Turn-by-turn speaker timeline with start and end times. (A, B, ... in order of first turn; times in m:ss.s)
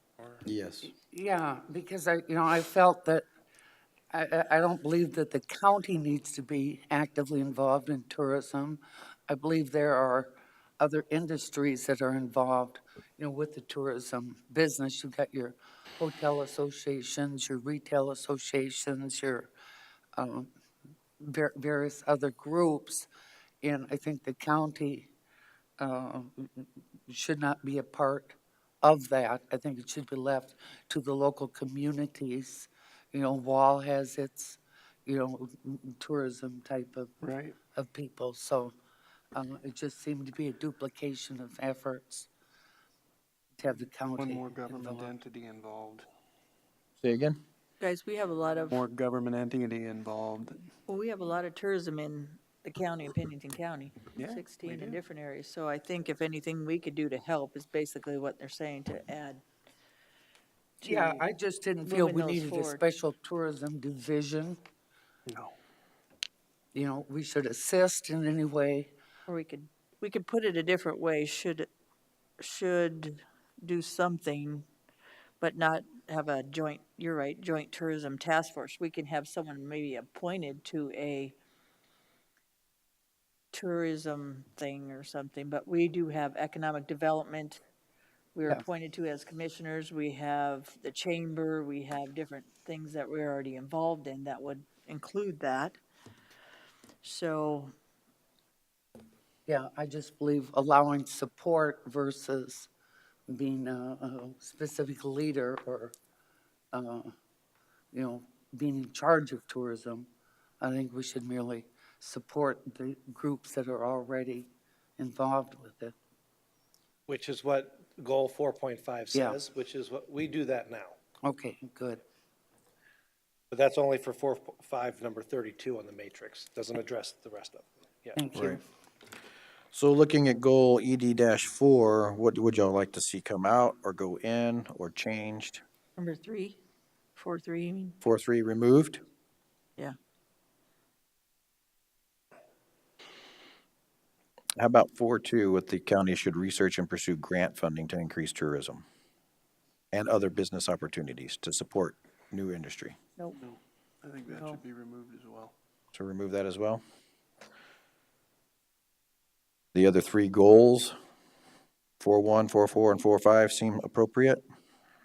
0:00.4-0:00.9 A
0:01.1-0:03.2 B
0:04.1-0:19.5 B
0:20.2-0:20.5 B
0:21.2-0:23.1 B
0:23.6-0:25.1 B
0:25.8-0:37.1 B
0:37.2-0:37.6 C
0:37.7-0:38.7 B
0:39.4-0:42.3 B
0:43.6-0:45.1 B
0:44.2-0:46.1 C
0:47.0-0:47.4 A
0:47.8-0:48.8 D
0:48.7-0:50.7 C
0:50.9-0:59.4 D
0:54.1-0:55.0 C
1:00.8-1:01.3 D
1:00.8-1:04.6 B
1:01.9-1:02.8 D
1:05.3-1:05.6 C
1:06.7-1:08.9 B
1:09.3-1:11.7 D
1:12.4-1:14.7 D
1:15.4-1:21.4 D
1:23.5-1:27.6 D
1:28.4-1:35.8 D
1:37.0-1:37.7 D
1:39.5-1:42.7 B
1:43.3-1:45.9 B
1:46.7-1:47.1 B
1:47.9-1:50.1 B
1:50.6-1:56.0 B
1:57.1-2:01.0 E
1:59.1-1:59.4 B
2:01.2-2:02.0 B
2:03.5-2:08.2 E
2:08.2-2:08.6 B
2:09.7-2:15.6 A
2:16.0-2:16.6 D
2:17.2-2:18.0 D
2:18.0-2:19.0 A
2:24.6-2:28.8 A
2:29.9-2:33.0 A
2:33.4-2:35.5 C
2:34.3-2:34.6 D
2:35.9-2:36.8 A
2:39.7-2:41.0 A
2:42.0-2:44.4 A